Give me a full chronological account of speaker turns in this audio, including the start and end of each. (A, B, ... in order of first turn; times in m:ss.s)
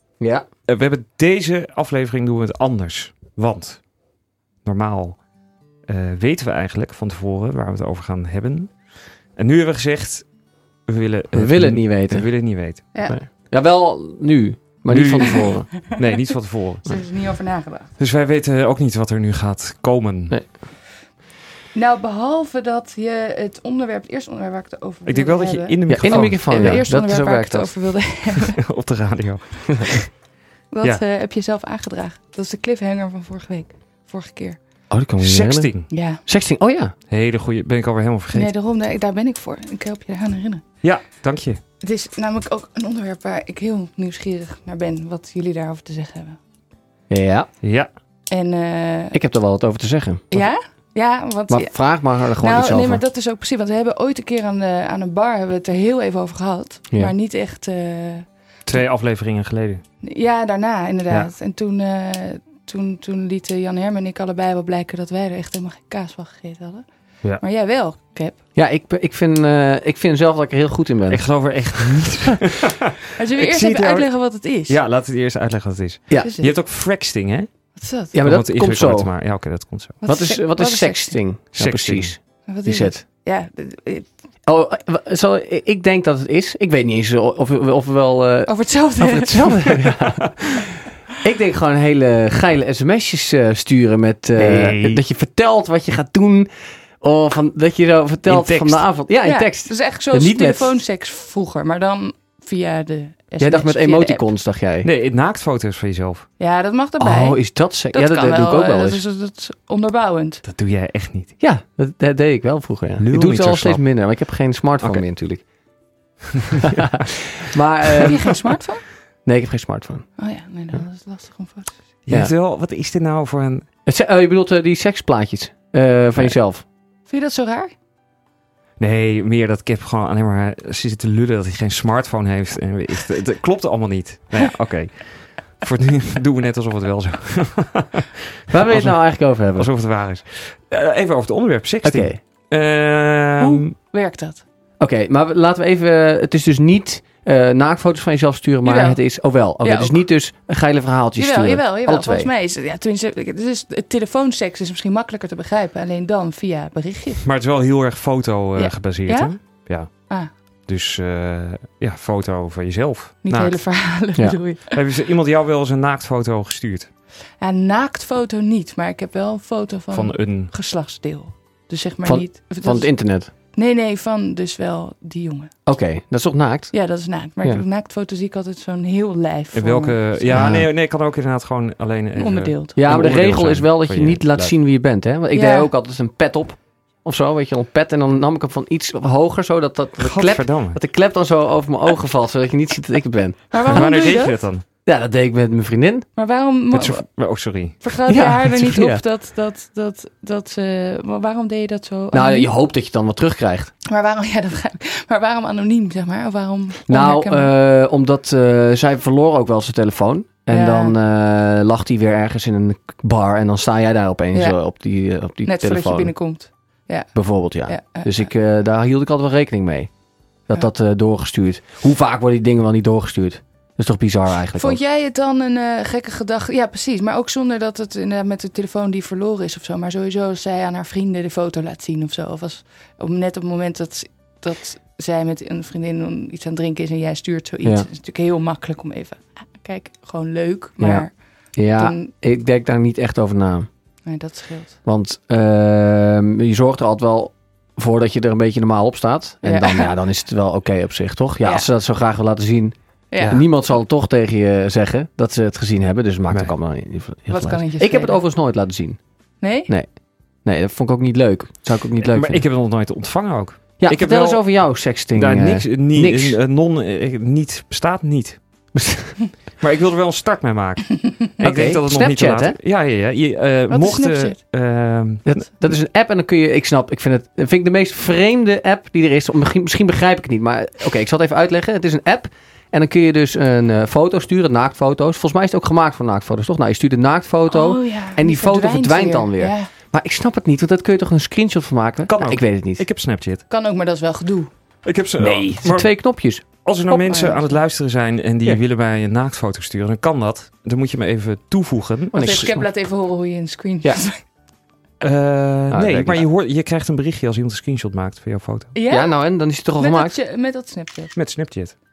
0:00.2-0:00.4 A
0:00.7-0:03.8 B
0:04.6-0:05.2 B
0:05.9-0:08.7 B
0:09.4-0:10.2 B
0:10.9-0:13.0 B
0:11.3-0:12.3 A
0:13.0-0:15.8 A
0:14.9-0:16.9 B
0:16.8-0:17.9 C
0:18.0-0:20.4 B
0:21.7-0:28.6 C
0:25.0-0:26.8 B
0:25.9-0:27.7 A
0:28.6-0:30.0 B
0:30.7-0:34.6 C
0:34.9-0:36.9 A
0:35.2-0:35.9 B
0:35.9-0:36.2 C
0:37.1-0:38.5 B
0:38.3-0:40.6 C
0:40.8-0:41.6 B
0:41.8-0:46.4 C
0:47.1-0:47.5 A
0:47.6-0:47.9 B
0:48.3-0:49.2 C
0:49.1-0:50.4 A
0:50.3-0:58.8 C
0:51.5-0:53.0 A
0:58.7-0:59.8 B
1:00.0-1:06.8 C
1:07.4-1:08.4 C
1:08.5-1:12.0 A
1:11.1-1:17.5 B
1:13.2-1:14.8 C
1:16.2-1:16.5 C
1:17.7-1:18.1 C
1:18.1-1:19.1 A
1:18.1-1:20.0 B
1:20.0-1:21.2 C
1:20.0-1:23.0 A
1:21.6-1:22.2 B
1:22.4-1:24.1 C
1:24.4-1:30.6 A
1:28.5-1:29.7 C
1:31.2-1:40.8 A
1:34.4-1:35.0 B
1:38.3-1:38.8 B
1:39.2-1:44.2 C
1:43.4-1:44.9 A
1:44.8-1:46.3 B
1:46.4-1:50.4 C
1:47.0-1:49.0 A
1:50.4-1:51.3 B
1:51.4-1:55.4 A
1:53.0-1:53.8 B
1:56.6-1:58.3 A
1:58.0-1:58.8 C
1:59.2-2:00.0 A
2:00.2-2:01.8 C
2:02.0-2:03.6 B
2:03.8-2:06.6 A
2:07.1-2:07.7 C
2:08.8-2:23.7 B
2:18.5-2:19.7 A
2:21.8-2:22.2 A
2:23.4-2:24.4 C
2:24.8-2:32.3 A
2:28.6-2:29.0 C
2:29.6-2:30.0 C
2:31.2-2:37.2 C
2:37.2-2:40.1 B
2:38.6-2:40.3 C
2:40.6-2:43.8 B
2:43.2-2:44.8 C
2:44.7-2:46.9 B
2:47.4-2:55.5 C
2:49.9-2:50.5 B
2:52.0-2:53.3 A
2:55.6-2:56.7 A
2:56.7-3:00.5 C
2:59.5-3:04.5 B
3:00.3-3:00.7 A
3:02.2-3:02.8 C
3:02.8-3:13.9 A
3:05.3-3:05.7 C
3:10.0-3:10.8 B
3:13.5-3:14.4 C
3:13.6-3:14.6 B
3:14.8-3:16.1 A
3:16.2-3:17.1 C
3:16.7-3:17.8 B
3:17.8-3:22.5 C
3:18.1-3:19.0 A
3:22.1-3:23.7 A
3:23.8-3:27.5 C
3:26.8-3:36.1 A
3:30.5-3:31.0 C
3:34.3-3:34.6 C
3:35.4-3:37.1 C
3:37.1-3:39.9 A
3:37.6-3:38.3 C
3:40.5-3:44.8 A
3:44.6-4:02.1 C
4:00.8-4:03.7 A
4:04.0-4:04.8 C
4:04.8-4:19.0 A
4:09.4-4:09.9 C
4:11.4-4:11.7 C
4:13.1-4:13.4 C
4:17.3-4:18.2 C
4:19.4-4:19.7 C
4:19.6-4:22.4 A
4:22.0-4:28.4 B
4:23.8-4:26.4 A
4:28.7-4:29.2 A
4:29.6-4:35.5 B
4:31.4-4:32.6 A
4:33.7-4:34.4 C
4:35.2-4:52.8 A
4:47.5-4:49.7 C
4:52.1-4:53.4 B
4:53.5-4:54.5 C
4:54.8-5:02.3 B
4:55.2-4:56.4 A
4:56.9-4:57.4 C
5:02.1-5:02.6 A
5:02.1-5:04.2 C
5:05.0-5:08.7 B
5:05.7-5:06.3 A
5:08.7-5:09.2 C
5:08.9-5:10.2 A
5:09.8-5:11.1 C
5:11.1-5:11.7 B